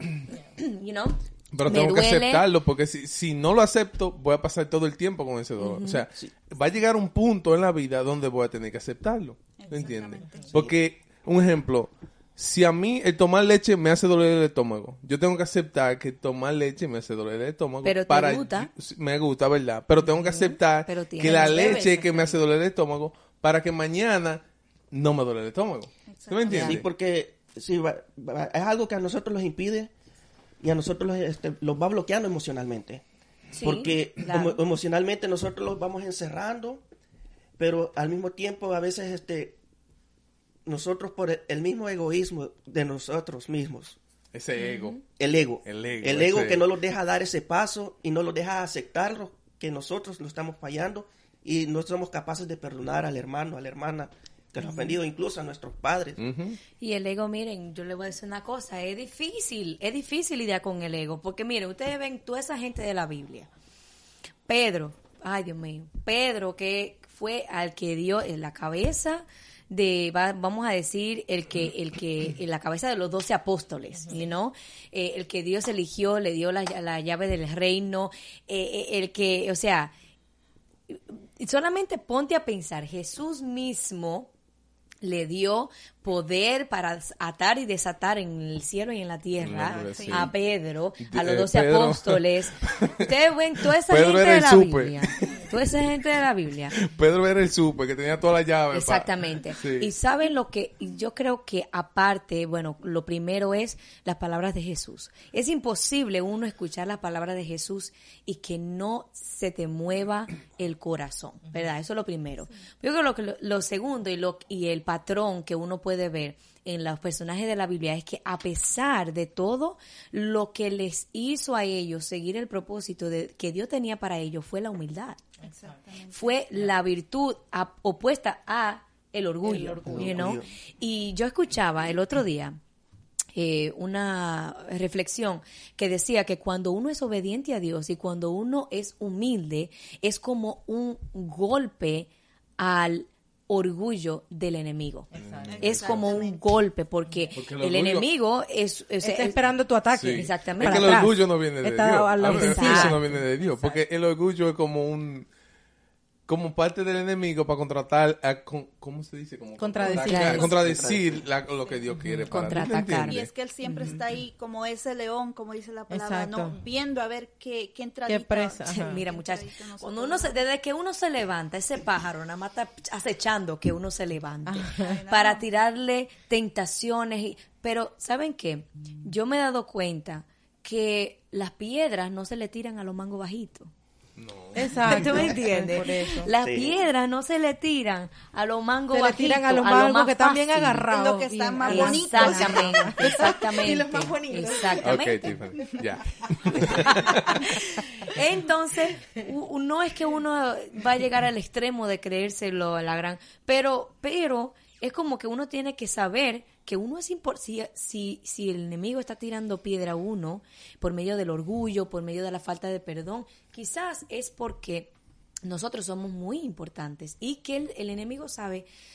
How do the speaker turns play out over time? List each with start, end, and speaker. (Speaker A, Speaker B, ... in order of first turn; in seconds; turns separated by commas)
Speaker A: 0.6-2.5, Speaker B: 1.5-26.9, Speaker A: 5.6-6.0, Speaker C: 9.6-10.7, Speaker A: 17.8-18.7, Speaker A: 20.2-22.4, Speaker D: 21.5-21.9, Speaker C: 26.1-26.7, Speaker E: 26.5-29.9, Speaker E: 30.6-33.0, Speaker A: 33.5-34.6, Speaker E: 33.6-36.8, Speaker E: 37.6-39.6, Speaker E: 40.6-44.0, Speaker B: 44.3-45.0, Speaker A: 44.6-45.0, Speaker E: 45.2-56.2, Speaker B: 45.6-46.6, Speaker A: 54.6-55.0, Speaker B: 56.2-56.6, Speaker A: 56.8-63.5, Speaker A: 64.5-79.9, Speaker D: 73.9-74.2, Speaker A: 80.9-84.3, Speaker A: 85.0-96.8, Speaker B: 89.4-90.3, Speaker C: 89.9-90.3, Speaker B: 91.0-93.0, Speaker B: 93.6-95.5, Speaker B: 96.8-99.9, Speaker A: 98.7-125.2, Speaker C: 125.4-126.4, Speaker A: 126.1-132.6, Speaker D: 129.4-130.4, Speaker E: 129.5-130.5, Speaker A: 133.3-149.5, Speaker D: 145.1-145.7, Speaker B: 145.2-146.1, Speaker C: 145.5-146.4, Speaker B: 147.3-148.1, Speaker D: 149.0-153.8, Speaker B: 149.9-155.3, Speaker A: 150.1-151.1, Speaker A: 152.3-153.0, Speaker B: 156.3-163.3, Speaker D: 159.6-160.6, Speaker A: 160.0-160.5, Speaker E: 160.5-161.3, Speaker D: 161.9-162.7, Speaker A: 162.3-164.0, Speaker C: 163.0-170.4, Speaker D: 165.9-166.6, Speaker D: 168.1-169.0, Speaker A: 168.7-183.7, Speaker D: 174.4-175.0, Speaker C: 174.7-175.4, Speaker B: 184.2-185.4, Speaker D: 184.5-186.3, Speaker A: 184.8-190.9, Speaker E: 186.3-186.8, Speaker D: 188.9-195.8, Speaker C: 190.9-193.3, Speaker A: 191.6-195.3, Speaker B: 194.8-197.4, Speaker A: 196.5-214.9, Speaker D: 196.6-198.1, Speaker A: 215.4-218.7